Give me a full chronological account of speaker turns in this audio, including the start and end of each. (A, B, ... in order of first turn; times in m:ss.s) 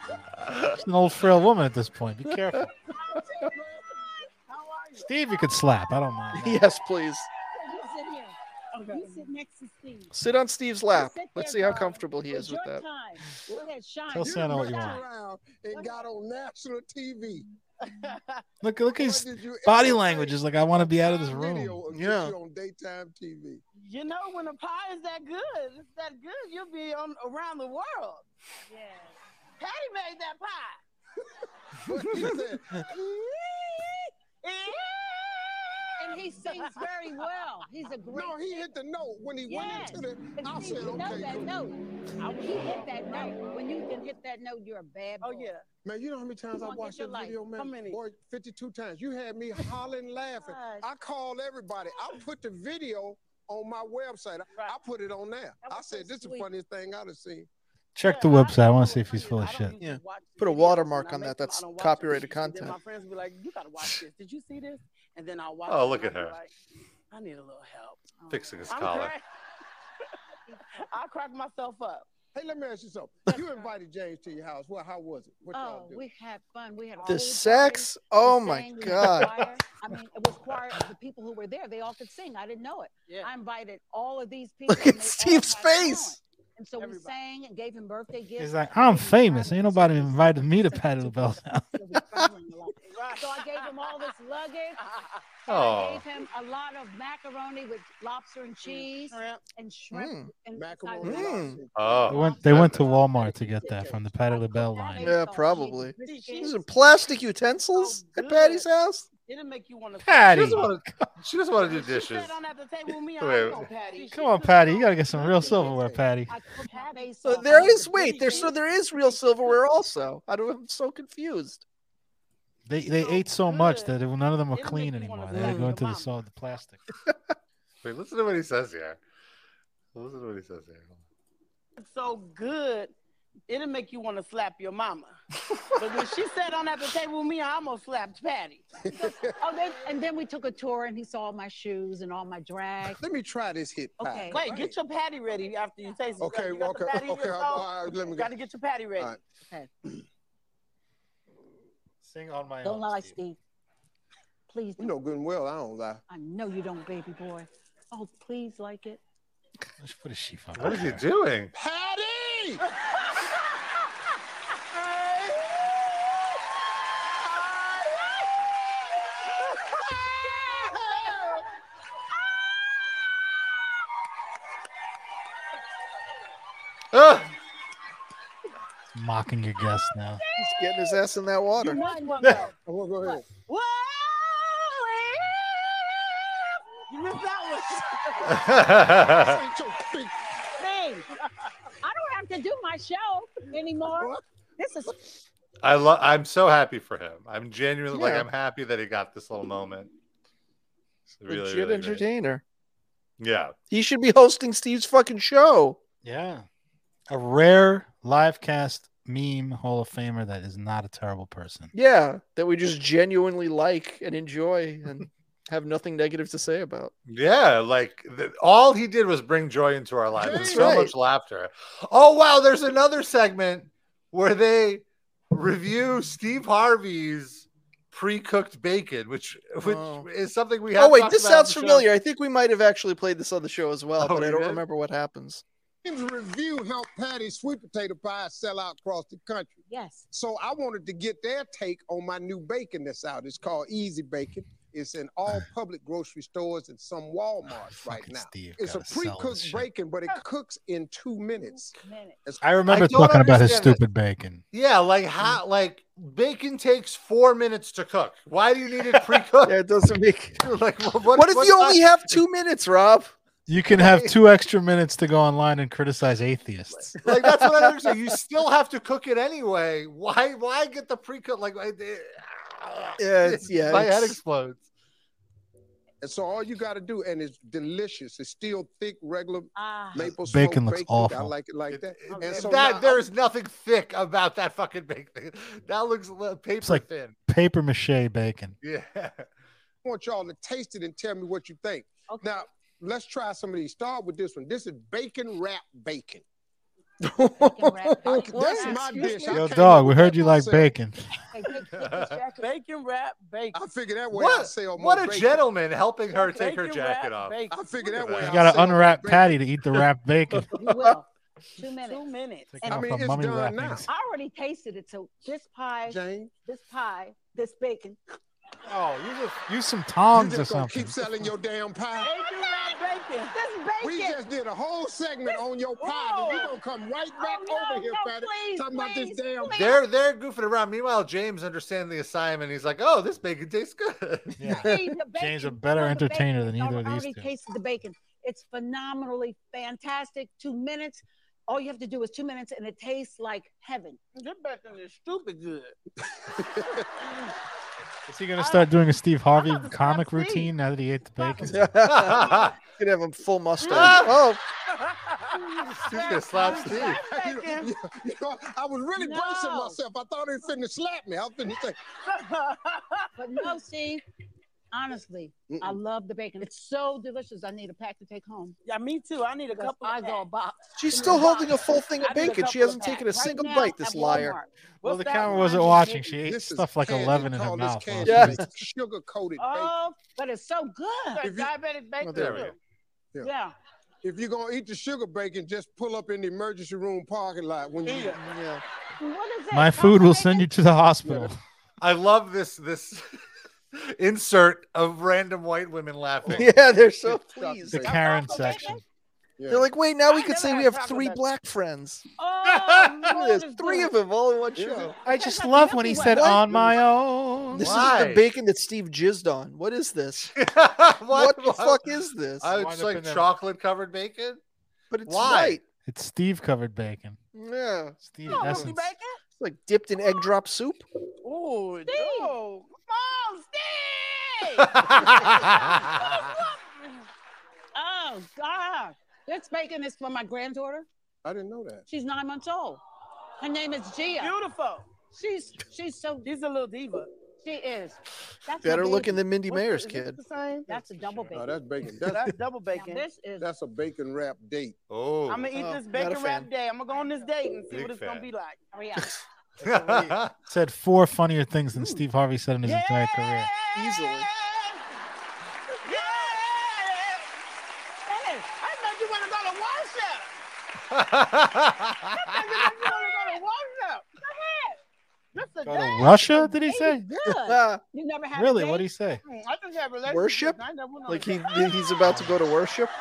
0:00.7-0:02.7 A
0:03.0-0:03.5 B
0:03.6-0:03.8 C
0:03.8-0:05.1 D
0:05.0-0:06.6 A
0:06.3-0:07.3 E
0:07.5-0:10.1 B
0:08.7-0:09.2 D
0:10.1-0:12.8 E
0:10.9-0:15.0 B
0:14.1-0:15.0 A
0:14.2-0:17.5 C
0:17.8-0:18.4 D
0:18.6-0:21.8 A
0:18.9-0:23.6 C
0:21.9-0:22.3 E
0:23.8-0:28.2 D
0:28.7-0:29.2 B
0:29.6-0:30.8 D
0:31.9-0:32.8 C
0:33.2-0:36.8 D
0:36.0-0:38.7 B
0:38.1-0:41.6 C
0:39.5-0:45.5 B
0:42.4-0:43.9 D
0:45.2-0:45.7 D
0:45.8-0:57.5 C
0:46.6-0:47.4 B
0:47.5-0:48.0 D
0:50.4-0:50.9 D
0:55.6-0:56.5 B
0:58.0-0:59.8 A
0:58.0-1:06.5 D
0:59.8-1:02.8 E
1:05.7-1:06.4 F
1:07.1-1:08.1 D
1:08.2-1:08.5 B
1:08.3-1:09.2 F
1:08.7-1:09.2 D
1:10.5-1:10.9 B
1:10.8-1:12.1 D
1:12.3-1:16.0 C
1:13.4-1:13.7 B
1:15.5-1:34.8 B
1:17.0-1:19.5 E
1:23.1-1:23.3 D
1:24.7-1:26.2 E
1:26.8-1:27.2 D
1:28.4-1:31.8 A
1:32.8-1:33.7 D
1:34.8-1:35.2 D
1:35.5-1:36.0 F
1:35.5-1:41.5 B
1:38.6-1:39.4 D
1:39.9-1:40.3 E
1:40.6-1:42.2 C
1:41.0-1:41.6 E
1:41.7-1:42.9 F
1:42.1-1:45.2 A
1:42.1-1:46.6 B
1:45.0-1:49.1 E
1:46.0-1:46.6 D
1:47.7-1:50.7 D
1:50.0-1:50.9 A
1:50.3-1:52.4 F
1:51.6-1:55.8 D
1:53.2-1:53.7 F
1:54.1-1:56.3 A
1:55.4-1:56.0 C
1:56.3-1:58.5 B
1:56.7-1:58.6 D
1:57.2-2:01.6 E
2:02.6-2:06.8 A
2:02.9-2:04.0 D
2:04.5-2:06.1 D
2:05.3-2:05.8 E
2:07.8-2:09.0 F
2:10.0-2:11.0 F
2:11.8-2:12.9 D
2:13.5-2:15.2 D
2:15.8-2:19.1 D
2:18.8-2:19.3 C
2:19.0-2:23.0 B
2:22.9-2:24.7 C
2:24.0-2:24.5 B
2:24.3-2:29.2 D
2:26.2-2:28.3 C
2:32.0-2:33.2 A
2:32.6-2:33.4 B
2:34.5-2:35.0 B
2:34.8-2:36.0 C
2:36.1-2:39.0 B
2:39.8-2:41.0 A
2:40.6-2:41.5 F
2:41.5-2:42.6 C
2:56.9-2:57.3 F
2:58.9-3:00.2 A
3:00.4-3:01.8 E
3:01.6-3:02.5 D
3:01.6-3:03.2 B
3:02.6-3:03.3 C
3:03.3-3:06.1 D
3:06.9-3:08.3 D
3:08.2-3:09.4 F
3:08.9-3:10.1 C
3:10.6-3:11.1 B
3:11.8-3:14.9 B
3:13.9-3:14.2 C
3:15.6-3:19.9 F
3:18.0-3:18.2 E
3:21.2-3:22.0 F
3:21.3-3:22.4 E
3:23.2-3:23.5 F
3:23.7-3:25.8 E
3:26.0-3:26.4 A
3:27.1-3:31.7 A
3:31.7-3:36.9 E
3:37.1-3:51.9 F
3:40.2-3:40.8 C
3:40.3-3:40.9 E
3:49.6-3:50.0 E
3:50.8-3:55.4 E
3:54.0-3:54.6 F
3:55.8-4:12.4 C
3:59.7-4:00.1 B
4:07.7-4:09.7 A
4:11.8-4:12.2 B
4:12.4-4:14.4 A
4:12.7-4:13.8 F
4:14.5-4:19.6 F
4:19.4-4:20.4 E
4:20.4-4:21.8 F
4:21.1-4:23.1 E
4:23.5-4:26.9 A
4:23.7-4:24.2 F
4:27.0-4:34.6 F
4:27.0-4:27.9 E
4:33.0-4:34.2 E
4:36.0-4:43.1 C
4:39.6-4:40.1 B
4:40.1-4:41.3 A
4:41.7-4:47.2 F
4:42.1-4:42.4 B
4:46.6-4:48.6 A
4:48.6-4:49.3 F
4:49.8-4:56.2 C
4:52.1-4:52.4 B
4:57.0-4:58.5 E
4:57.4-4:59.5 B
4:58.1-5:00.7 C
4:59.3-5:01.0 A
5:01.3-5:02.4 B
5:01.7-5:02.2 F
5:02.2-5:03.6 D
5:03.5-5:05.5 C
5:04.1-5:08.4 F
5:06.1-5:07.7 D
5:07.5-5:09.4 C
5:08.2-5:10.5 A
5:10.5-5:12.9 B
5:10.6-5:11.0 E
5:11.8-5:12.6 D
5:12.5-5:13.9 A
5:12.6-5:13.8 C
5:13.8-5:18.0 B
5:15.9-5:16.3 C
5:18.7-5:21.1 A
5:20.1-5:22.1 C
5:22.0-5:24.2 D
5:23.8-5:29.8 C
5:25.3-5:26.6 D
5:27.2-5:29.8 B
5:29.5-5:34.7 F
5:34.4-5:37.3 A
5:34.6-5:44.0 B
5:44.2-5:45.8 D
5:46.4-5:46.8 C
5:48.1-5:51.6 A
5:48.4-5:48.6 D
5:49.3-5:50.5 D
5:51.2-5:51.5 B
5:51.4-5:54.4 E
5:51.8-5:52.5 F
5:53.7-5:54.1 F
5:54.8-5:57.7 D
5:55.7-5:57.0 F
5:56.3-5:57.0 B
5:56.5-6:01.8 C
5:59.0-5:59.7 B
5:59.2-5:59.6 D
6:02.0-6:03.1 D
6:03.2-6:04.0 B
6:04.7-6:08.6 B
6:05.5-6:05.8 C
6:08.6-6:10.3 D
6:09.5-6:11.4 B
6:10.8-6:14.4 E
6:10.9-6:13.1 D
6:12.9-6:14.5 B
6:14.8-6:16.1 D
6:14.8-6:18.4 A
6:15.2-6:15.9 B
6:16.1-6:19.7 C
6:18.0-6:18.5 E
6:19.4-6:19.7 D
6:19.4-6:21.3 B
6:21.1-6:22.6 D
6:21.2-6:21.5 C
6:22.0-6:22.5 E
6:22.1-6:22.5 F
6:23.2-6:23.5 B
6:24.0-6:28.2 C
6:27.8-6:28.2 D
6:28.2-6:28.6 E
6:29.0-6:30.5 B
6:29.5-6:31.4 A
6:31.0-6:31.3 C
6:31.8-6:33.2 F
6:33.7-6:36.6 F
6:36.3-6:38.5 C
6:36.3-6:37.9 E
6:37.7-6:38.8 A
6:37.9-6:38.8 D
6:38.3-6:38.7 B
6:39.4-6:39.6 C
6:39.5-6:42.0 E
6:40.1-6:41.2 D
6:42.2-6:43.9 B
6:43.0-6:45.0 E
6:44.6-6:44.9 C
6:45.0-6:47.6 A
6:45.1-6:46.2 B
6:46.1-6:50.3 E
6:47.6-6:48.3 F
6:50.3-6:54.4 F
6:51.1-6:52.5 E
6:52.5-6:53.3 A
6:54.9-6:55.6 E
6:55.1-6:55.6 F
6:55.9-6:57.2 A
6:57.4-6:58.7 E
6:58.0-6:58.9 A
6:58.3-6:59.2 D
6:59.4-7:00.9 E
7:01.2-7:06.9 D
7:01.8-7:02.4 B
7:04.6-7:06.3 F
7:07.8-7:10.9 B
7:11.2-7:11.8 C
7:11.9-7:12.8 B
7:13.4-7:14.4 B
7:14.2-7:14.9 D
7:15.1-7:16.3 B
7:16.2-7:17.1 D
7:17.4-7:19.2 B
7:18.6-7:20.2 E
7:19.4-7:20.7 D
7:20.7-7:21.6 B
7:21.3-7:22.2 C
7:22.0-7:22.3 E
7:22.0-7:23.0 D
7:22.7-7:23.5 B
7:23.4-7:24.8 C
7:24.9-7:25.6 F
7:25.3-7:28.6 D
7:25.6-7:26.5 E
7:27.7-7:28.3 F
7:28.7-7:29.1 B
7:29.6-7:30.3 F
7:30.5-7:33.5 A
7:32.6-7:34.8 D
7:33.7-7:34.3 E
7:35.8-7:37.3 D
7:35.9-7:36.3 B
7:38.1-7:38.5 B
7:38.5-7:40.4 D
7:40.9-7:42.9 F
7:42.2-7:44.7 D
7:44.2-7:44.7 B
7:45.3-7:46.3 D
7:45.6-7:47.0 A
7:46.2-7:48.9 B
7:47.2-7:47.8 E
7:48.4-7:49.2 A
7:49.2-7:52.0 D
7:50.1-7:52.9 E
7:52.0-7:52.4 A